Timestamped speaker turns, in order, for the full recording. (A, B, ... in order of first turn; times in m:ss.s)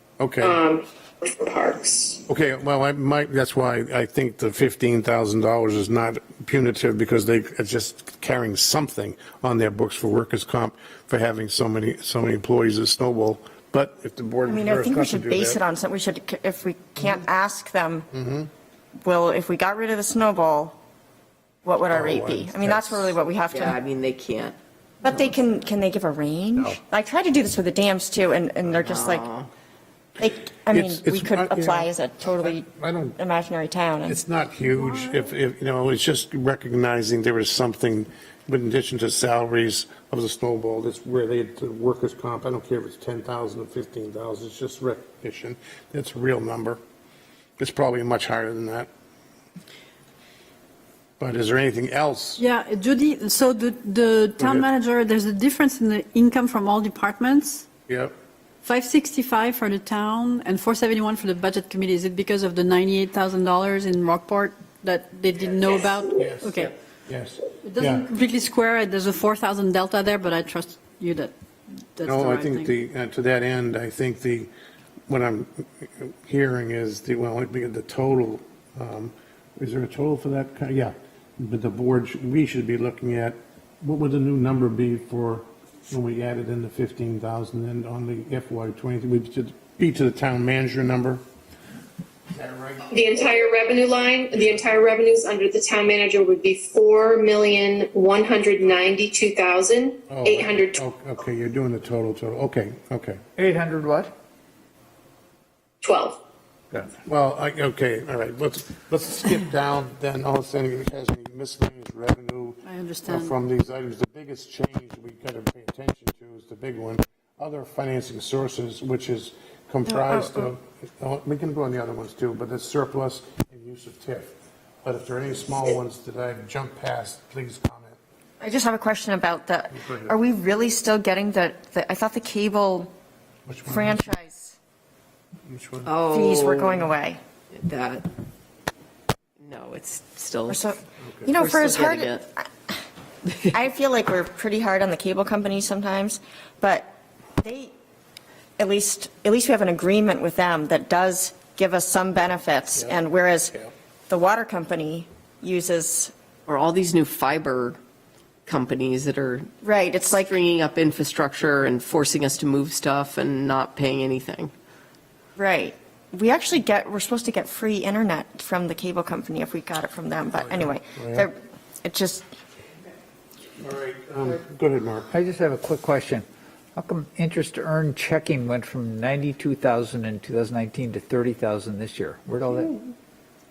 0:00.2-0:00.6 A
0:00.4-0:02.2 B
0:02.3-0:15.6 A
0:14.5-0:18.1 C
0:18.1-0:18.5 A
0:19.0-0:20.8 C
0:21.6-0:23.8 C
0:21.9-0:23.1 A
0:23.5-0:24.6 D
0:25.0-0:29.3 C
0:28.8-0:29.5 D
0:30.2-0:32.7 C
0:30.6-0:33.2 A
0:33.2-0:34.2 C
0:34.0-0:46.8 A
0:47.6-0:48.9 A
0:51.2-0:52.4 A
0:52.4-0:57.7 E
0:54.4-0:54.7 A
0:57.9-0:58.1 A
0:58.6-1:06.7 E
1:06.1-1:08.1 A
1:07.6-1:11.3 E
1:12.0-1:12.7 E
1:12.0-1:14.5 A
1:15.1-1:31.2 A
1:32.3-1:32.9 A
1:32.9-1:40.8 B
1:40.1-1:43.2 A
1:43.4-1:44.1 F
1:45.8-1:46.2 B
1:47.0-2:04.3 A
1:52.6-1:53.3 E
2:04.8-2:08.0 A
2:08.4-2:12.9 C
2:09.8-2:10.1 A
2:13.5-2:14.0 A
2:13.7-2:14.6 C
2:15.4-2:15.9 A
2:15.8-2:16.9 D
2:16.0-2:17.2 C
2:17.5-2:18.1 D
2:19.4-2:20.6 D
2:20.5-2:22.5 C
2:21.0-2:21.3 A
2:21.3-2:22.2 D
2:23.5-2:27.7 C
2:28.6-2:33.5 C
2:34.1-2:36.1 C
2:36.4-2:37.8 D
2:38.4-2:39.5 D
2:39.6-2:40.3 C
2:40.0-2:44.5 D
2:45.4-2:52.2 C
2:50.4-2:51.3 A
2:53.6-2:55.1 A
2:55.1-3:02.8 F